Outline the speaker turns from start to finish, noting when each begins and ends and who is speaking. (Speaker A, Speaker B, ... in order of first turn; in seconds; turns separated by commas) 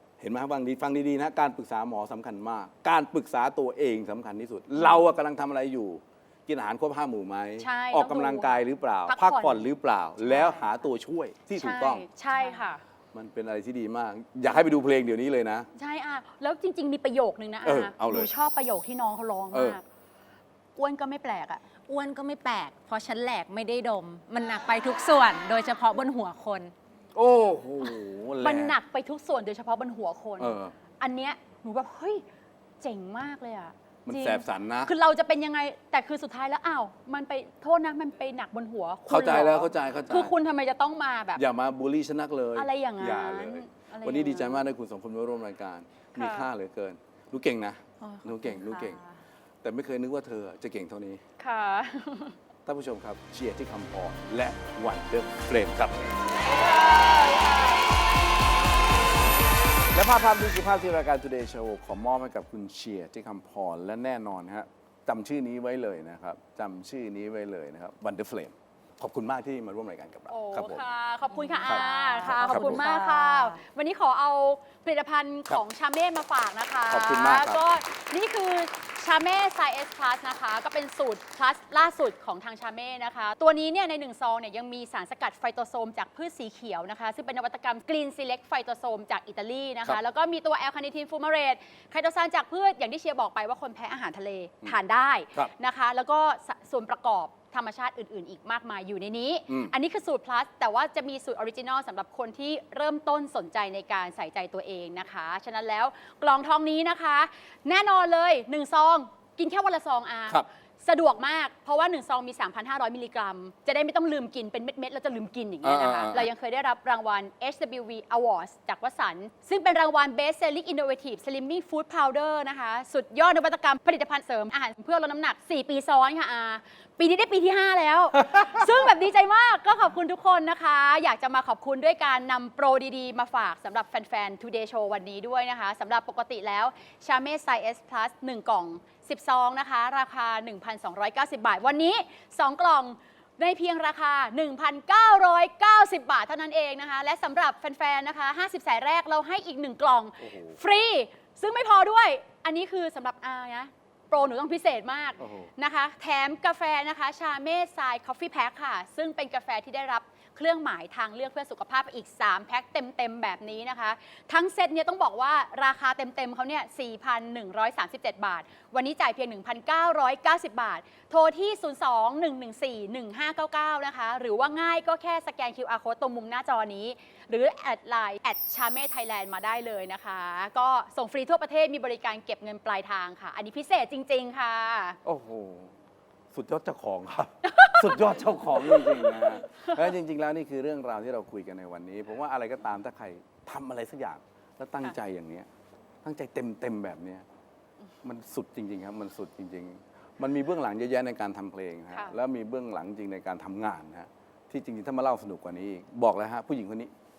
Speaker A: 0.2-12.1, Speaker B: 4.8-5.1, Speaker B: 7.6-9.7, Speaker B: 10.2-10.7, Speaker B: 11.5-12.8, Speaker C: 12.3-12.6, Speaker A: 13.1-15.7, Speaker B: 15.8-19.8, Speaker A: 17.6-18.3, Speaker A: 19.5-19.8, Speaker B: 20.8-21.6, Speaker C: 21.9-26.7, Speaker A: 27.1-28.8, Speaker B: 28.4-32.2, Speaker A: 30.4-30.7, Speaker B: 32.8-41.4, Speaker A: 34.0-34.9, Speaker A: 39.1-40.3, Speaker A: 41.4-49.0, Speaker B: 42.5-44.7, Speaker B: 46.1-46.5, Speaker C: 48.0-49.0, Speaker A: 49.6-51.2, Speaker B: 51.4-52.4, Speaker A: 52.6-56.2, Speaker B: 56.8-57.8, Speaker A: 59.9-70.8, Speaker B: 70.3-185.0, Speaker C: 71.3-73.6, Speaker A: 71.7-72.9, Speaker A: 76.9-77.6, Speaker A: 99.5-99.7, Speaker A: 115.6-116.3, Speaker A: 150.2-150.6, Speaker A: 155.2-155.5, Speaker A: 185.0-185.7, Speaker A: 186.3-195.5, Speaker B: 187.4-189.9, Speaker A: 196.0-197.2, Speaker A: 198.0-206.9